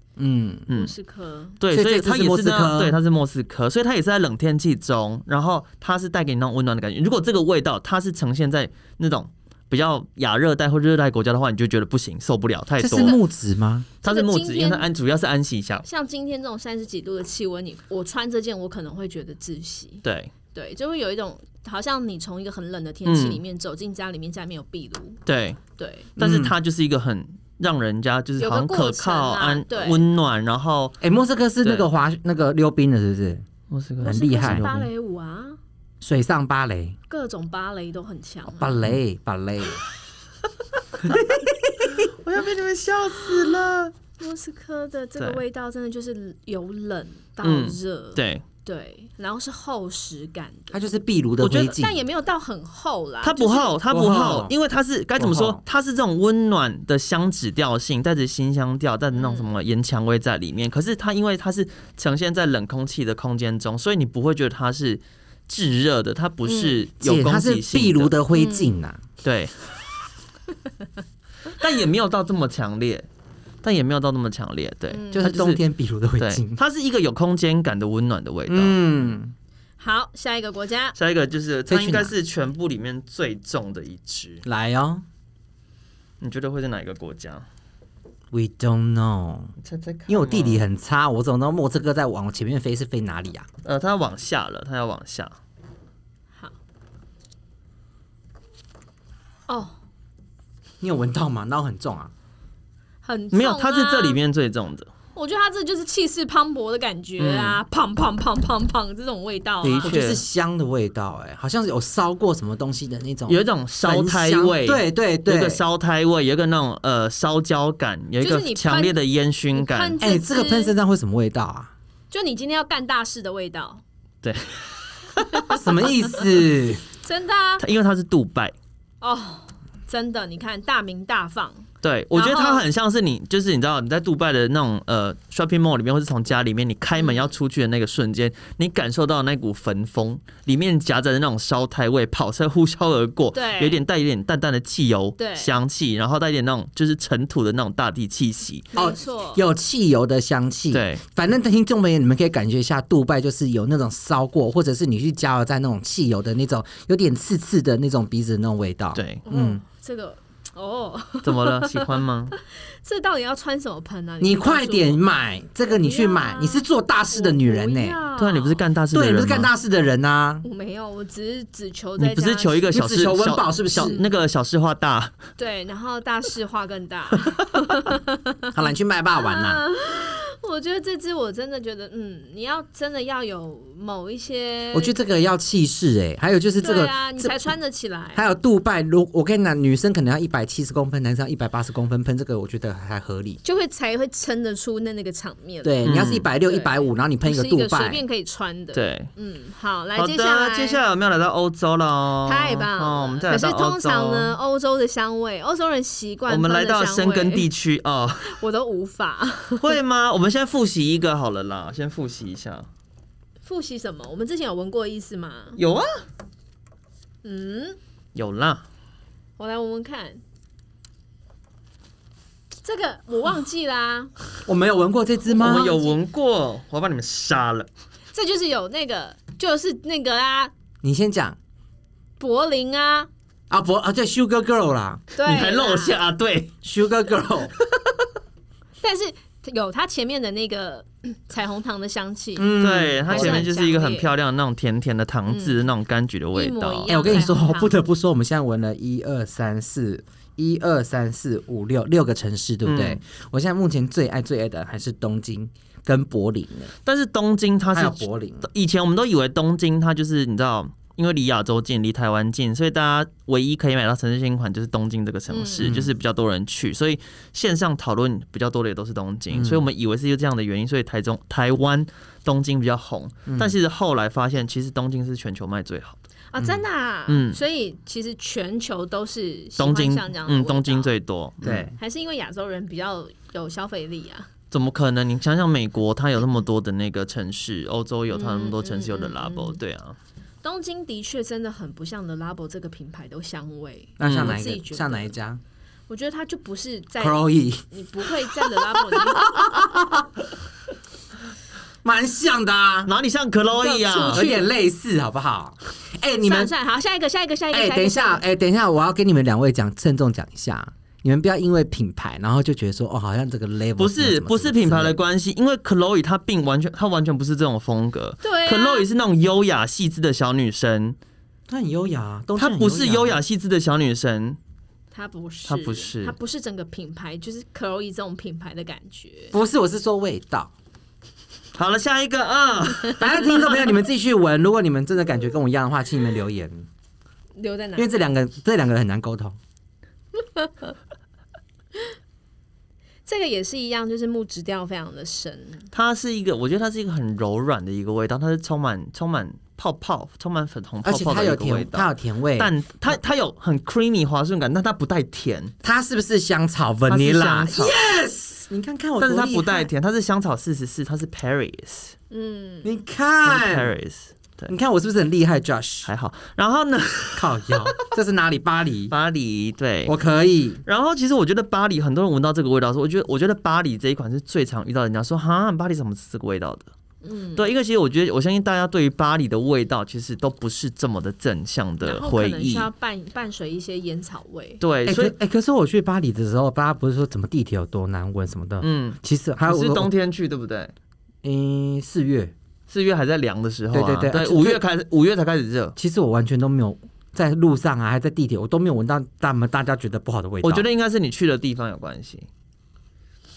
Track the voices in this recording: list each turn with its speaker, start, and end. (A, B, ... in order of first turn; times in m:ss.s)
0:00.2-0:00.7 A
0:00.7-0:00.9 B
0:00.7-0:01.6 C
0:01.6-0:13.2 B
0:01.7-0:03.0 A
0:12.8-0:13.9 A
0:12.9-0:13.2 C
0:14.0-0:15.8 B
0:14.0-0:14.9 C
0:15.8-0:20.0 C
0:20.0-0:20.3 B
0:20.5-0:25.2 C
0:23.0-0:23.4 B
0:25.3-0:25.6 B
0:25.8-0:26.1 C
0:26.2-0:31.0 B
0:26.2-0:26.6 A
0:28.4-0:30.1 C
0:31.0-0:33.4 A
0:33.7-0:34.8 B
0:34.0-0:34.9 A
0:34.0-0:35.6 C
0:36.0-0:37.0 A
0:37.1-0:38.8 C
0:38.6-0:39.8 A
0:41.0-0:42.1 A
0:42.1-0:43.9 B
0:44.2-0:50.8 C
0:47.4-0:48.4 B
0:50.7-0:52.0 A
0:51.4-0:51.8 B
0:51.6-0:53.8 C
0:53.2-1:08.1 B
0:53.9-0:54.5 A
0:55.2-0:55.6 A
0:59.1-0:59.5 C
1:06.4-1:06.8 C
1:07.0-1:09.0 A
1:08.3-1:08.7 C
1:09.2-1:09.5 B
1:11.5-1:13.1 B
1:13.6-1:15.6 B
1:14.9-1:15.4 C
1:15.1-1:16.6 A
1:16.2-1:18.8 B
1:18.5-1:19.3 A
1:19.8-1:21.0 C
1:21.0-1:24.4 B
1:21.7-1:22.1 A
1:24.4-1:25.0 A
1:26.2-1:27.4 B
1:28.3-1:29.5 A
1:29.6-1:30.6 B
1:30.1-1:33.5 A
1:33.6-1:35.4 B
1:39.5-1:39.8 C
1:40.8-1:42.1 A
1:43.0-1:44.2 C
1:43.3-1:44.9 B
1:45.2-1:50.0 C
1:47.2-1:47.6 B
1:49.6-1:55.6 A
1:49.8-1:50.2 B
1:53.3-2:00.0 B
1:58.2-1:59.0 C
1:59.5-2:00.7 C
2:00.0-2:01.7 A
2:02.1-2:03.8 C
2:04.2-2:05.5 B
2:05.3-2:05.6 C
2:05.5-2:06.8 A
2:07.0-2:07.6 C
2:07.6-2:08.5 B
2:09.0-2:12.7 C
2:11.8-2:28.7 B
2:17.0-2:17.3 C
2:23.3-2:23.8 C
2:25.2-2:25.5 C
2:28.7-2:29.4 C
2:28.7-2:39.6 A
2:30.7-2:31.0 B
2:39.0-2:39.2 B
2:39.2-2:45.0 C
2:41.2-2:42.4 B
2:44.2-2:48.0 A
2:45.7-2:48.6 C
2:48.2-2:49.5 B
2:48.9-2:50.4 A
2:50.4-2:52.8 C
2:52.0-2:55.2 B
2:52.7-2:54.0 A
2:53.8-2:54.1 C
2:55.4-2:58.5 C
2:58.5-2:59.6 A
2:59.2-3:05.0 C
3:04.7-3:07.5 A
3:06.6-3:08.2 C
3:08.2-3:13.4 A
3:13.4-3:20.8 C
3:15.6-3:18.0 A
3:15.8-3:16.3 B
3:18.7-3:19.1 B
3:20.0-3:24.4 B
3:22.2-3:27.5 C
3:26.3-3:28.4 B
3:28.2-3:29.8 C
3:29.6-3:32.7 B
3:33.4-3:35.6 C
3:35.6-3:36.0 B
3:37.2-3:37.8 C
3:38.2-3:38.6 B
3:39.4-3:40.2 C
3:42.6-3:44.4 C
3:44.5-3:45.7 A
3:45.3-3:47.7 B
3:45.3-3:46.0 C
3:48.1-3:50.5 C
3:50.8-3:51.4 A
3:52.2-3:53.1 C
3:53.5-3:55.0 A
3:55.1-3:56.0 C
3:55.2-3:56.5 B
3:56.6-3:57.5 A
3:58.8-4:04.1 C
4:02.4-4:03.5 A
4:02.6-4:07.2 B
4:05.3-4:05.6 C
4:06.3-4:07.8 C
4:06.9-4:16.7 A
4:12.6-4:13.0 B
4:16.8-4:36.0 B
4:17.7-4:18.5 A
4:25.3-4:25.7 C
4:25.6-4:25.9 A
4:29.3-4:29.7 A
4:33.3-4:33.6 A
4:36.3-4:40.9 C
4:37.1-4:37.4 B
4:39.6-4:41.7 B
4:41.4-4:41.8 A
4:41.8-4:44.3 C
4:44.5-4:50.0 B
4:48.1-4:49.6 C
4:50.4-4:55.1 C
4:54.0-4:55.4 A
4:54.0-4:54.4 B
4:55.9-4:59.4 C
4:57.0-5:00.1 A
5:01.8-5:02.9 A
5:02.9-5:04.3 B
5:03.6-5:04.5 C
5:04.1-5:06.5 A
5:06.2-5:08.2 C
5:07.5-5:15.0 A
5:13.8-5:21.0 B
5:18.2-5:18.9 C
5:21.5-5:23.2 A
5:22.4-5:24.4 B
5:24.9-5:29.3 C
5:25.5-5:26.2 B
5:29.3-5:30.5 A
5:31.6-5:33.5 B
5:33.0-5:36.7 A
5:37.4-5:37.9 C
5:37.8-5:39.4 A
5:40.2-5:40.7 C
5:43.1-5:45.7 C
5:45.7-5:55.5 B
5:50.8-5:53.0 A
5:55.6-5:59.7 A
5:56.9-5:57.8 B
5:59.0-6:02.0 B
6:02.1-6:02.7 C
6:02.6-6:03.7 A
6:03.2-6:04.5 B
6:04.5-6:05.9 A
6:05.9-6:07.9 B
6:07.2-6:08.9 A
6:08.9-6:10.0 B
6:09.9-6:10.6 A
6:10.6-6:16.7 B
6:17.0-6:17.4 C
6:17.4-6:22.7 B
6:21.8-6:24.6 C
6:24.6-6:25.1 B
6:24.9-6:29.9 A
6:28.6-6:30.7 B
6:31.2-6:32.3 A
6:32.7-6:35.8 B
6:33.7-6:34.6 A
6:35.8-6:40.7 A
6:40.4-6:42.3 B